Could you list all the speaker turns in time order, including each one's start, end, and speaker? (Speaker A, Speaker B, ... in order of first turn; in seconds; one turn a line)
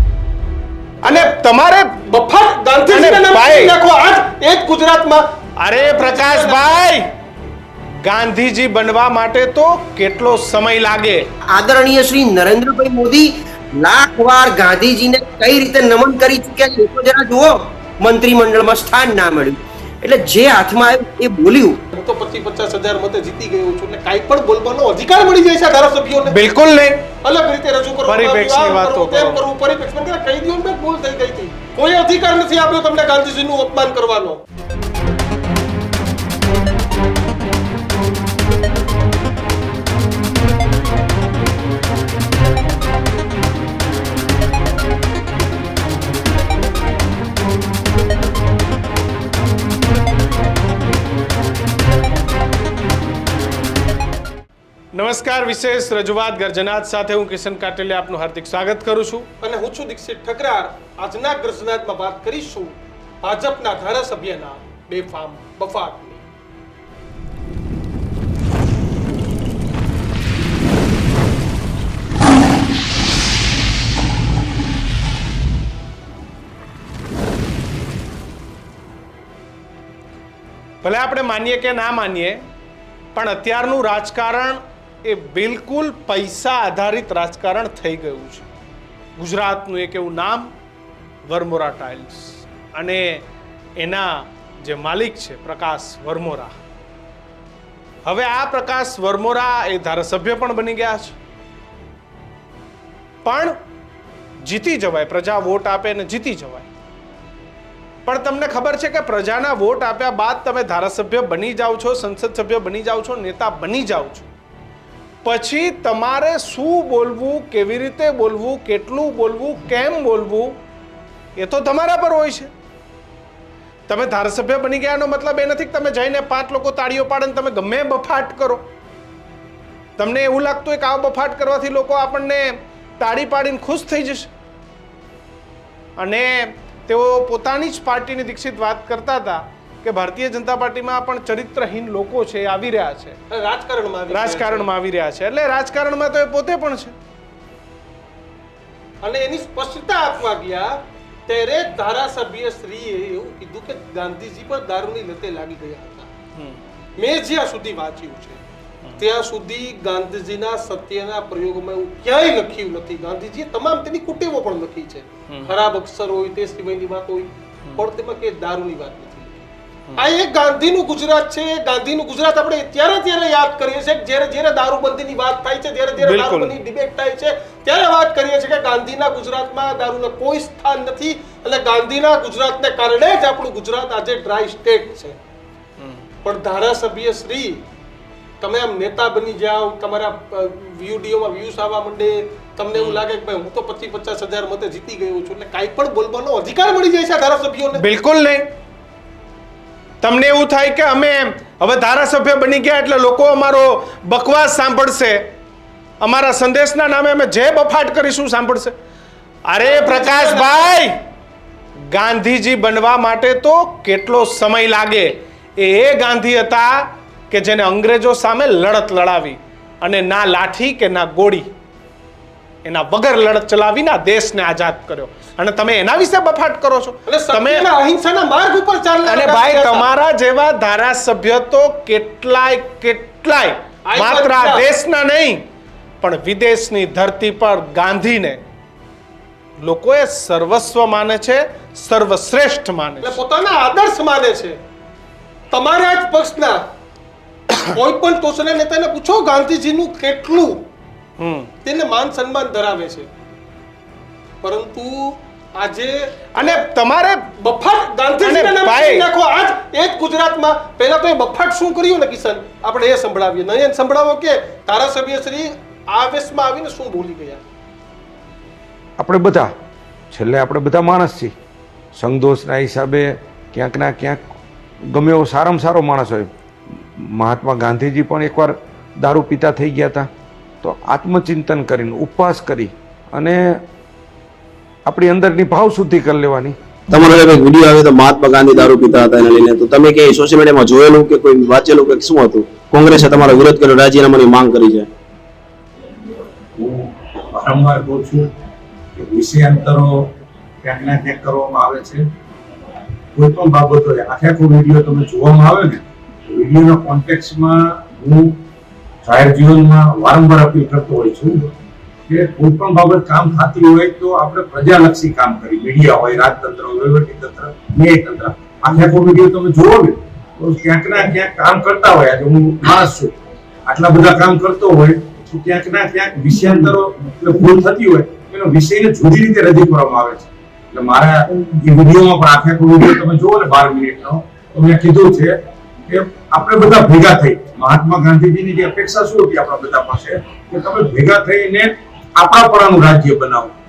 Speaker A: 1.0-2.0
Speaker B: 1.0-1.3
Speaker B: 2.1-6.8
Speaker A: 2.9-3.7
Speaker A: 5.6-7.1
Speaker A: 8.0-11.3
Speaker C: 11.5-21.8
Speaker B: 21.9-26.4
Speaker A: 26.2-27.1
Speaker B: 27.2-34.4
Speaker A: 28.1-29.4
Speaker A: 54.9-59.3
Speaker B: 59.4-66.2
Speaker A: 80.8-82.4
Speaker A: 83.1-88.4
Speaker A: 89.2-90.5
Speaker A: 91.2-93.2
Speaker A: 93.8-96.5
Speaker A: 98.0-101.1
Speaker A: 103.2-103.5
Speaker A: 104.4-106.7
Speaker A: 108.1-114.3
Speaker A: 115.2-120.6
Speaker A: 121.4-122.5
Speaker A: 123.9-128.6
Speaker A: 130.0-134.3
Speaker A: 136.0-143.2
Speaker B: 143.3-144.7
Speaker A: 144.1-146.9
Speaker B: 149.0-156.1
Speaker B: 157.0-158.4
Speaker B: 159.0-185.2
Speaker A: 176.0-176.5
Speaker B: 186.2-187.6
Speaker B: 188.4-197.8
Speaker A: 192.7-193.0
Speaker A: 197.8-198.5
Speaker A: 200.0-205.3
Speaker A: 206.0-208.7
Speaker A: 209.5-210.9
Speaker B: 209.6-210.7
Speaker A: 211.9-221.5
Speaker A: 222.6-227.7
Speaker B: 227.1-229.9
Speaker A: 229.1-235.4
Speaker B: 233.9-234.6
Speaker A: 236.0-238.4
Speaker A: 239.6-243.2
Speaker B: 243.0-244.6
Speaker B: 245.5-246.6
Speaker B: 247.7-250.6
Speaker A: 251.2-251.5
Speaker B: 251.6-253.1
Speaker B: 254.4-256.6
Speaker A: 256.3-257.3
Speaker B: 257.4-267.4
Speaker A: 258.2-259.1
Speaker D: 269.0-269.5
Speaker D: 270.1-271.3
Speaker D: 271.9-274.2
Speaker D: 274.9-276.3
Speaker D: 277.0-280.1
Speaker D: 280.6-283.4
Speaker D: 284.9-286.6
Speaker E: 286.9-294.9
Speaker F: 296.6-298.3
Speaker F: 298.9-300.1
Speaker F: 300.6-302.0
Speaker F: 303.1-308.4
Speaker F: 309.0-311.5
Speaker F: 312.1-335.3
Speaker F: 335.9-343.5